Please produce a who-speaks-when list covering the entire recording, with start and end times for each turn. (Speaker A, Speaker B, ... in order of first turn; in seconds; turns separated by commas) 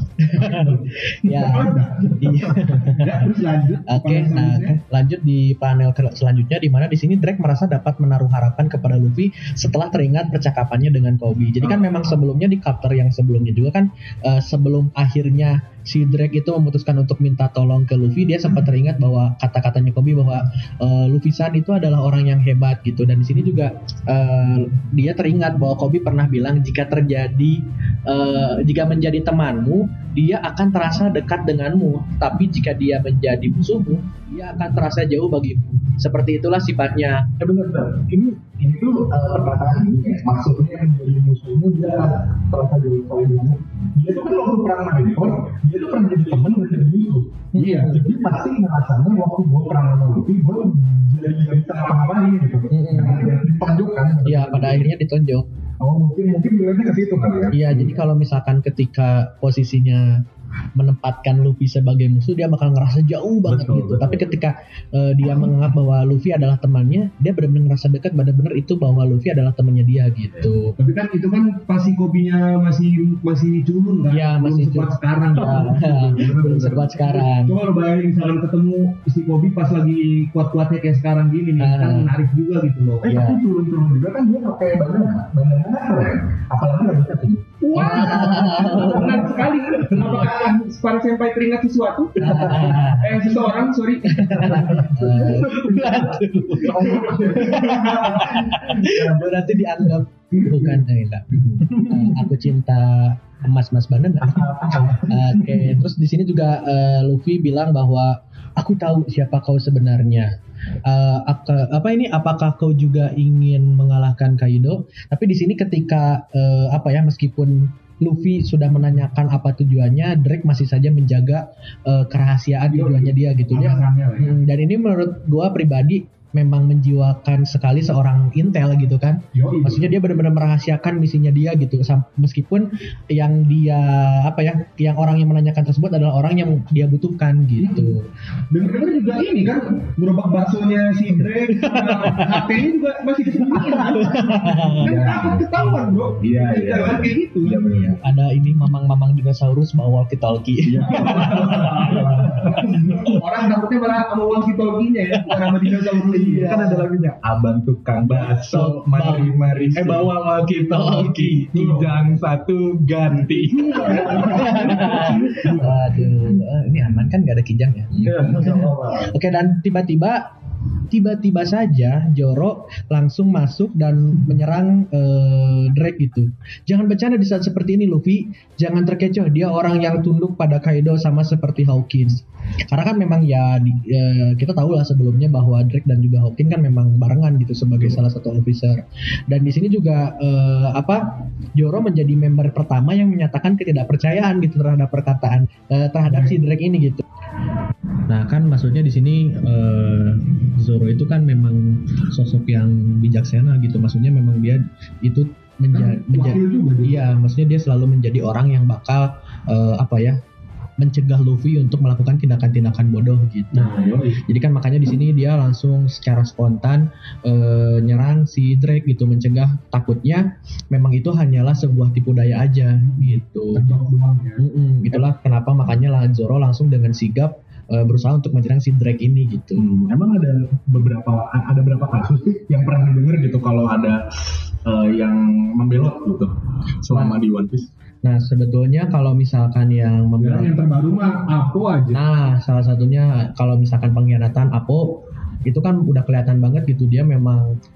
Speaker A: 0.2-3.3, Speaker B: 0.4-4.8, Speaker A: 3.9-37.3, Speaker C: 37.4-54.9, Speaker A: 47.5-48.0, Speaker B: 47.6-48.0, Speaker A: 52.7-53.4, Speaker A: 54.2-55.5, Speaker C: 55.8-58.0, Speaker A: 57.5-60.2, Speaker A: 60.8-70.8, Speaker C: 63.5-64.3, Speaker B: 70.8-75.8, Speaker A: 74.1-77.5, Speaker C: 75.4-77.2, Speaker B: 77.5-83.1, Speaker A: 81.6-82.1, Speaker C: 83.0-90.4, Speaker A: 83.1-83.4, Speaker B: 87.6-95.1, Speaker A: 87.8-89.3, Speaker A: 89.9-90.3, Speaker A: 92.2-93.2, Speaker C: 92.2-93.4, Speaker A: 94.1-104.5, Speaker C: 94.4-99.2, Speaker B: 97.0-98.4, Speaker B: 100.4-100.7, Speaker C: 101.7-102.3, Speaker C: 104.2-105.7, Speaker A: 105.1-110.3, Speaker A: 110.9-138.1, Speaker B: 122.7-124.4, Speaker B: 129.3-129.9, Speaker B: 137.6-137.9, Speaker B: 138.5-147.8, Speaker A: 141.5-142.5, Speaker C: 143.5-145.7, Speaker A: 143.9-144.8, Speaker C: 146.2-148.0, Speaker A: 148.0-152.0, Speaker C: 150.7-153.2, Speaker B: 150.9-156.7, Speaker C: 156.1-165.8, Speaker A: 156.4-156.8, Speaker A: 158.4-160.1, Speaker A: 160.7-161.7, Speaker B: 161.6-161.9, Speaker B: 163.3-165.7, Speaker A: 164.1-170.2, Speaker C: 168.0-169.1, Speaker A: 170.9-191.1, Speaker A: 191.6-197.0, Speaker A: 198.1-210.2, Speaker B: 205.7-207.1, Speaker A: 210.8-223.7, Speaker C: 213.6-214.2, Speaker B: 213.6-214.0, Speaker B: 222.8-224.4, Speaker A: 224.4-229.7, Speaker C: 229.6-237.7, Speaker A: 236.9-237.2, Speaker A: 238.0-240.5, Speaker B: 240.2-242.0, Speaker A: 241.9-247.5